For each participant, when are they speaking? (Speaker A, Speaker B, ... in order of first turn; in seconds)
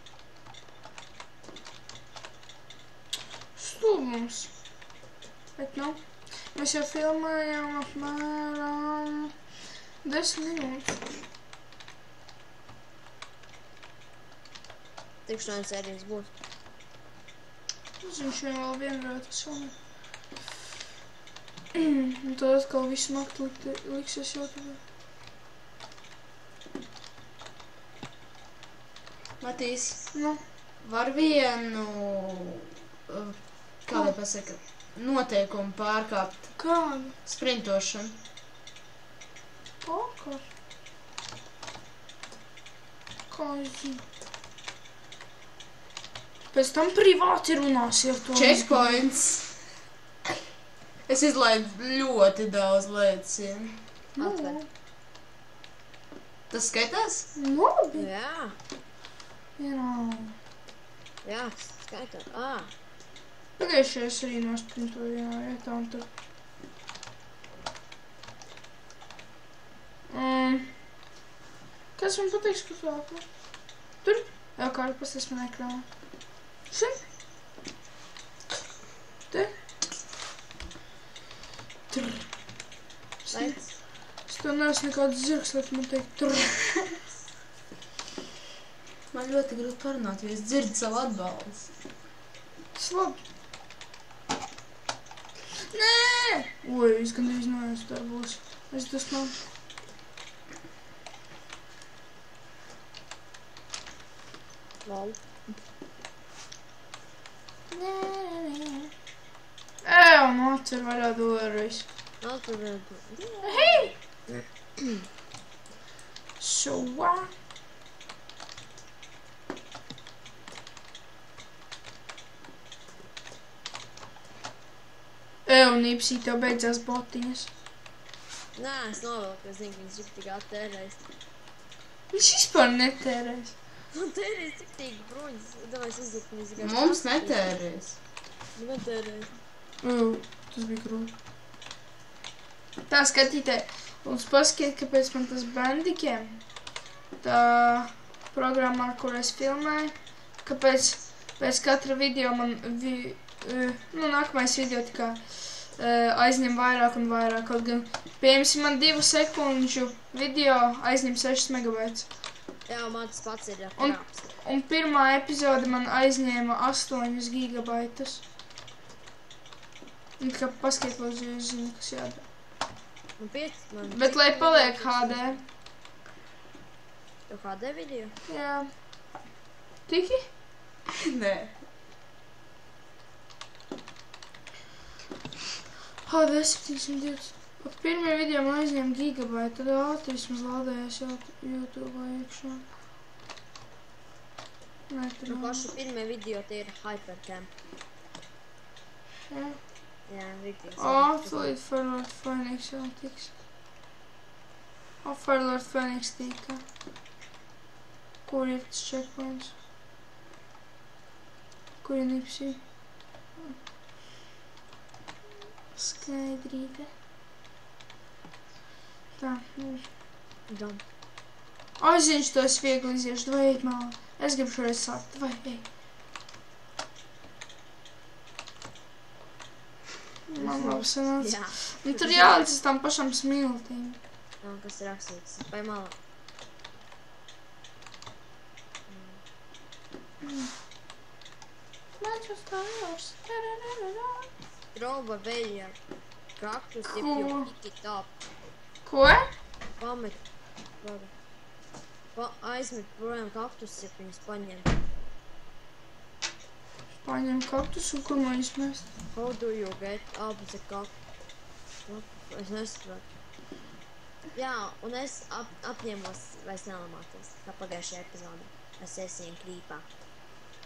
Speaker A: 3.6-4.5, 5.6-9.3, 10.0-11.1, 18.0-19.7, 21.8-24.8, 30.1-30.4, 36.6-37.2, 39.8-40.5, 43.3-44.0, 46.5-49.0, 54.2-54.7, 57.4-58.1, 59.6-60.4, 63.6-66.1, 70.1-70.8, 72.0-73.3, 74.0-75.9, 76.7-77.0, 81.9-82.3, 83.3-83.6, 84.2-87.0, 92.8-93.2, 95.7-99.4, 107.7-108.9, 109.8-111.8, 113.5-113.9, 116.4-117.3, 125.5-127.5, 132.1-133.6, 139.8-141.1, 142.9-146.4, 147.2-162.1, 163.8-168.2, 170.2-172.2, 173.9-175.4, 178.3-178.7, 179.9-180.3, 186.1-192.7, 194.9-195.7, 199.2-199.6, 200.8-203.3, 205.0-206.6, 208.2-209.6, 211.8-212.6, 215.8-216.9, 219.2-219.9, 221.8-225.7, 230.3-234.0, 240.2-240.5, 242.0-244.3, 246.9-247.5, 248.9-249.3, 257.0-258.9
Speaker B: 15.3-16.3, 54.2-54.6, 58.0-58.6, 61.2-62.7, 83.3-83.7, 104.8-105.2, 112.2-115.1, 128.6-131.0, 133.9-137.6, 138.6-139.3, 162.7-164.3, 173.2-175.4, 177.3-178.2, 195.3-197.5, 200.1-201.5, 220.5-220.8, 230.4-232.4, 234.4-235.9, 238.9-239.2, 244.7-245.8, 246.4-248.1, 249.8-250.2, 250.8-251.1, 252.2-254.7, 259.1-260.9, 261.9-263.0, 264.3-269.9
Speaker C: 29.4-30.1, 30.8-36.6, 37.2-38.2, 48.3-49.6, 51.1-53.8, 56.5-57.3, 89.1-91.7, 136.6-138.0, 180.9-181.6